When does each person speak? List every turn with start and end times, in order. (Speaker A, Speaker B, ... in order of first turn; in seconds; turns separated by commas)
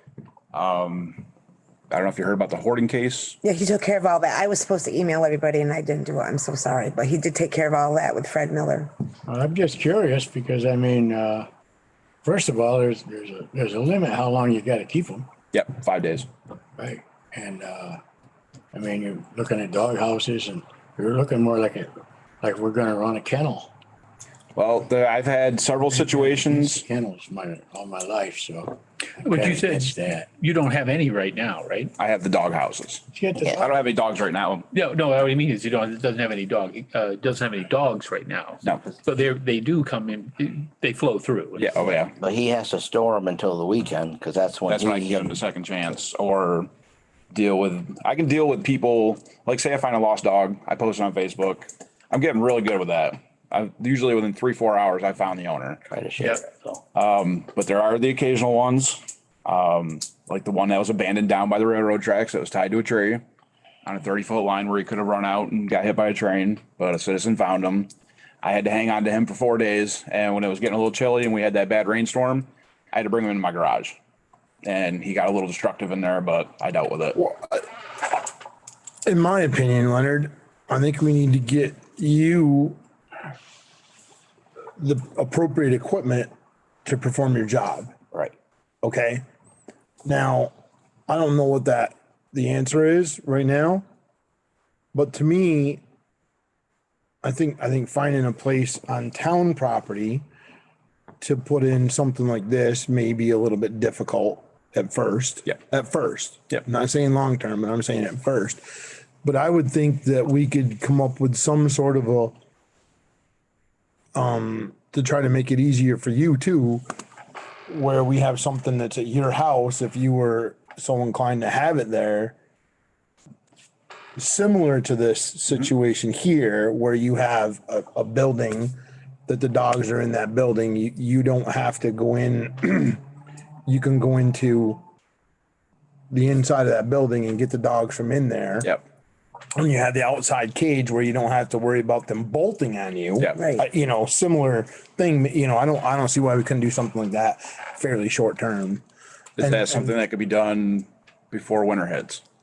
Speaker A: 0.5-1.2, Speaker A: 1.9-3.4, Speaker B: 3.4-8.9, Speaker C: 9.3-11.5, Speaker C: 12.2-15.3, Speaker A: 15.5-16.3, Speaker C: 16.8-18.0, Speaker C: 18.7-23.7, Speaker A: 24.6-26.9, Speaker C: 26.1-28.8, Speaker D: 29.2-31.9, Speaker C: 29.3-30.2, Speaker A: 32.0-34.7, Speaker C: 33.1-33.6, Speaker D: 34.7-42.1, Speaker A: 41.6-42.1, Speaker E: 42.2-45.3, Speaker A: 44.7-46.7, Speaker A: 47.3-55.8, Speaker E: 55.9-56.8, Speaker A: 56.9-63.2, Speaker A: 63.9-67.9, Speaker A: 68.4-74.0, Speaker A: 74.6-77.2, Speaker F: 77.2-77.6, Speaker F: 79.0-82.8, Speaker F: 84.8-86.3, Speaker F: 86.8-87.9, Speaker F: 88.8-89.2, Speaker F: 90.0-90.5, Speaker F: 91.1-93.8, Speaker F: 94.9-95.8, Speaker F: 97.2-100.2, Speaker F: 101.2-108.6, Speaker F: 109.2-112.4, Speaker F: 114.1-116.8, Speaker F: 117.7-122.3, Speaker F: 124.2-128.8, Speaker F: 129.3-133.0, Speaker F: 133.7-134.8, Speaker F: 136.1-138.7, Speaker F: 139.6-148.8, Speaker B: 143.3-143.7, Speaker F: 149.4-149.9, Speaker A: 149.4-152.2